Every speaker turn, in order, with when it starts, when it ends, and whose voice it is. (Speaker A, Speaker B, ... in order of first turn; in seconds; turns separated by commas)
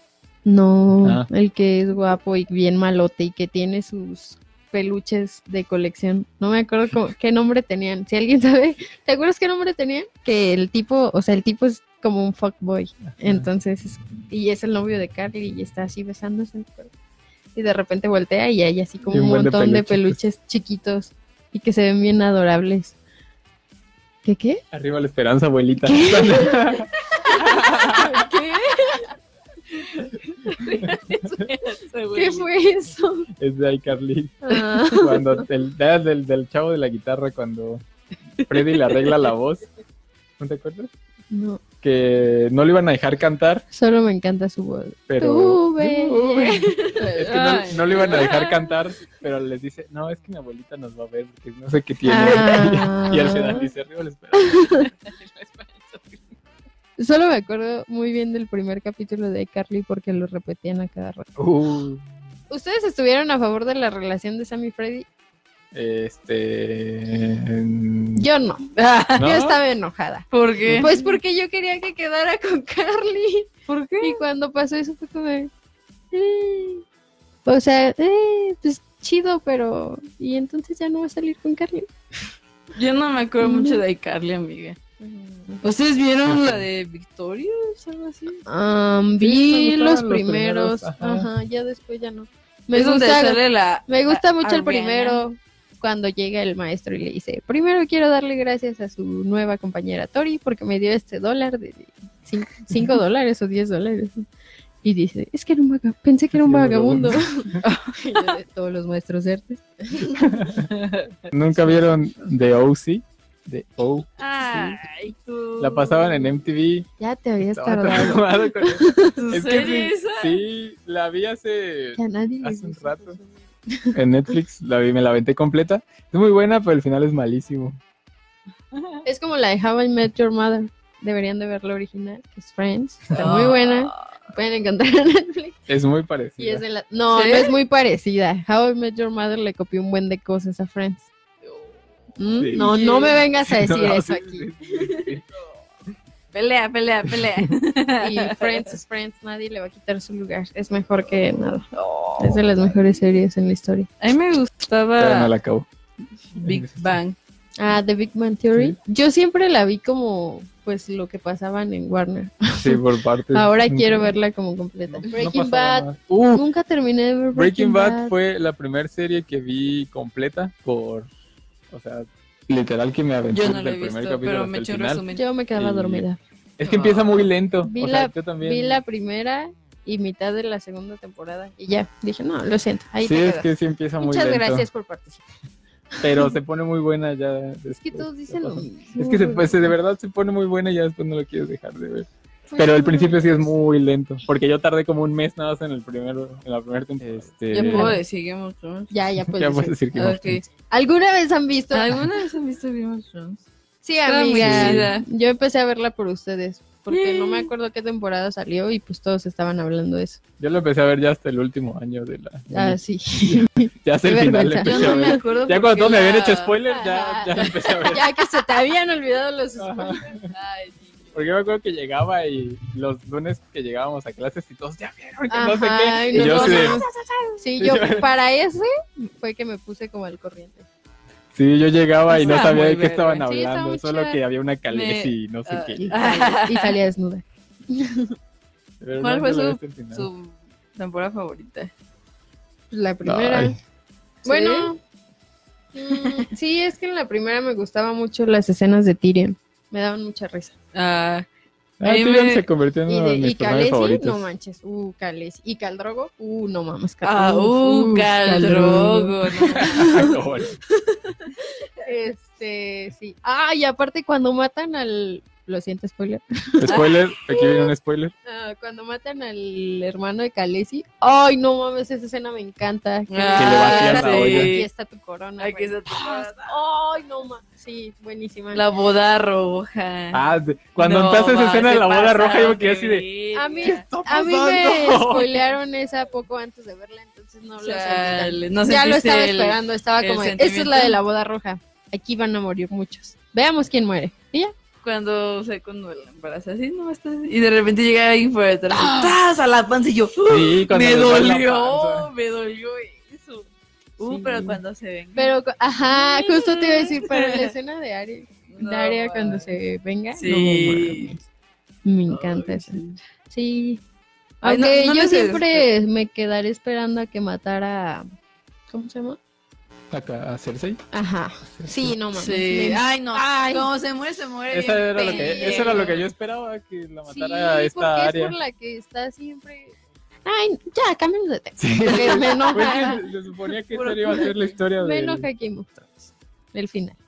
Speaker A: 0.4-16.9, Speaker A: 17.5-22.9, Speaker B: 19.1-20.2, Speaker A: 24.2-24.6, Speaker B: 24.7-28.2, Speaker A: 25.9-29.1, Speaker C: 28.0-29.0, Speaker A: 30.5-30.9, Speaker C: 30.5-32.5, Speaker A: 32.1-33.3, Speaker B: 33.4-37.8, Speaker A: 34.4-35.4, Speaker C: 38.4-39.2, Speaker B: 38.5-39.7, Speaker B: 40.4-40.9, Speaker A: 41.3-41.6, Speaker B: 41.8-43.6, Speaker A: 43.7-47.2, Speaker B: 45.1-54.7, Speaker C: 46.8-48.8, Speaker A: 52.0-53.7, Speaker A: 54.3-54.9, Speaker C: 54.8-56.4, Speaker A: 57.0-61.3, Speaker B: 61.4-62.0, Speaker A: 62.5-65.0, Speaker B: 65.7-68.3, Speaker A: 68.2-68.7, Speaker C: 68.8-69.3, Speaker B: 69.2-69.6, Speaker A: 69.2-75.5, Speaker C: 70.3-70.9, Speaker C: 73.7-74.2, Speaker A: 76.1-76.8, Speaker A: 77.4-81.9, Speaker C: 82.7-84.8, Speaker A: 83.4-83.8, Speaker A: 85.0-85.7, Speaker C: 85.6-88.4, Speaker B: 86.2-86.6, Speaker A: 88.5-104.2, Speaker B: 89.2-91.3, Speaker C: 92.7-95.2, Speaker A: 104.8-110.5, Speaker B: 106.3-107.6, Speaker C: 107.6-108.3, Speaker B: 110.2-110.7, Speaker C: 110.7-111.1, Speaker B: 111.3-114.8, Speaker C: 114.2-116.3, Speaker B: 115.6-116.9, Speaker A: 117.0-119.2, Speaker B: 117.4-123.2, Speaker C: 119.2-120.4, Speaker A: 122.0-123.9, Speaker B: 123.9-127.8, Speaker A: 129.0-135.6, Speaker C: 133.2-134.0, Speaker B: 135.7-136.6, Speaker A: 136.4-141.1, Speaker C: 137.1-137.5, Speaker C: 141.4-141.7, Speaker A: 142.2-144.5, Speaker B: 142.4-145.2, Speaker C: 142.5-143.2, Speaker C: 146.3-148.7, Speaker B: 147.1-147.5, Speaker A: 148.0-151.7, Speaker C: 151.7-152.5, Speaker A: 152.2-153.9, Speaker C: 154.0-155.3, Speaker B: 155.0-155.7, Speaker C: 156.3-157.2, Speaker B: 156.4-156.9, Speaker A: 157.6-168.1, Speaker B: 162.6-164.1, Speaker B: 164.9-166.5, Speaker B: 167.3-171.1, Speaker B: 171.7-175.0, Speaker C: 173.3-175.2, Speaker A: 175.1-176.2, Speaker B: 175.5-176.1, Speaker B: 176.6-178.8, Speaker C: 176.7-177.1, Speaker A: 177.6-185.2, Speaker B: 183.0-184.7, Speaker B: 186.0-198.0, Speaker A: 187.7-189.7, Speaker A: 192.5-193.5, Speaker C: 197.5-198.9, Speaker A: 197.6-198.0, Speaker A: 198.9-199.8, Speaker B: 199.3-200.4, Speaker C: 199.9-200.4, Speaker A: 200.6-202.0, Speaker C: 201.7-203.4, Speaker A: 203.8-210.2, Speaker C: 204.1-205.1, Speaker B: 204.4-204.9, Speaker C: 206.9-207.5, Speaker B: 210.4-218.1, Speaker A: 212.5-215.3, Speaker C: 214.6-216.6, Speaker A: 216.7-220.0, Speaker B: 219.6-220.3, Speaker C: 220.3-221.3, Speaker B: 221.1-226.8, Speaker A: 225.3-230.7, Speaker C: 226.1-227.4, Speaker B: 227.6-228.1, Speaker B: 231.3-236.0, Speaker A: 232.1-232.6, Speaker C: 232.1-233.3, Speaker A: 233.2-234.2, Speaker C: 234.7-236.7, Speaker A: 235.8-238.1, Speaker B: 238.8-240.1, Speaker C: 239.0-241.7, Speaker A: 242.7-243.6, Speaker B: 243.0-243.6, Speaker C: 244.2-244.7, Speaker A: 244.2-244.8, Speaker A: 245.7-250.5, Speaker C: 245.9-246.2, Speaker C: 250.7-251.2, Speaker B: 251.8-254.3, Speaker C: 251.8-252.4, Speaker A: 252.9-260.1, Speaker C: 257.0-260.1, Speaker B: 259.6-260.6, Speaker A: 260.9-267.7, Speaker B: 266.6-268.1, Speaker C: 266.7-266.9, Speaker A: 268.2-278.6, Speaker C: 273.1-274.7, Speaker B: 273.4-274.5, Speaker C: 275.4-276.5, Speaker C: 278.5-280.2, Speaker B: 280.1-283.1, Speaker C: 280.8-283.8, Speaker A: 283.3-294.5, Speaker B: 283.6-285.4, Speaker C: 287.6-291.0, Speaker C: 294.8-305.3, Speaker A: 298.8-299.1, Speaker B: 300.3-302.1, Speaker A: 304.0-304.6, Speaker A: 305.1-311.2, Speaker C: 305.9-307.5, Speaker C: 308.5-309.5, Speaker C: 310.1-311.1, Speaker A: 311.8-313.8, Speaker C: 312.1-313.0, Speaker A: 314.4-318.1, Speaker C: 314.4-315.7, Speaker A: 318.7-319.2, Speaker B: 319.9-320.8, Speaker A: 320.9-323.7, Speaker B: 321.5-321.9, Speaker C: 322.1-326.1, Speaker B: 324.5-328.4, Speaker A: 325.0-326.0, Speaker A: 327.1-333.0, Speaker B: 331.6-335.3, Speaker C: 331.8-332.9, Speaker C: 333.7-334.4, Speaker A: 334.1-337.0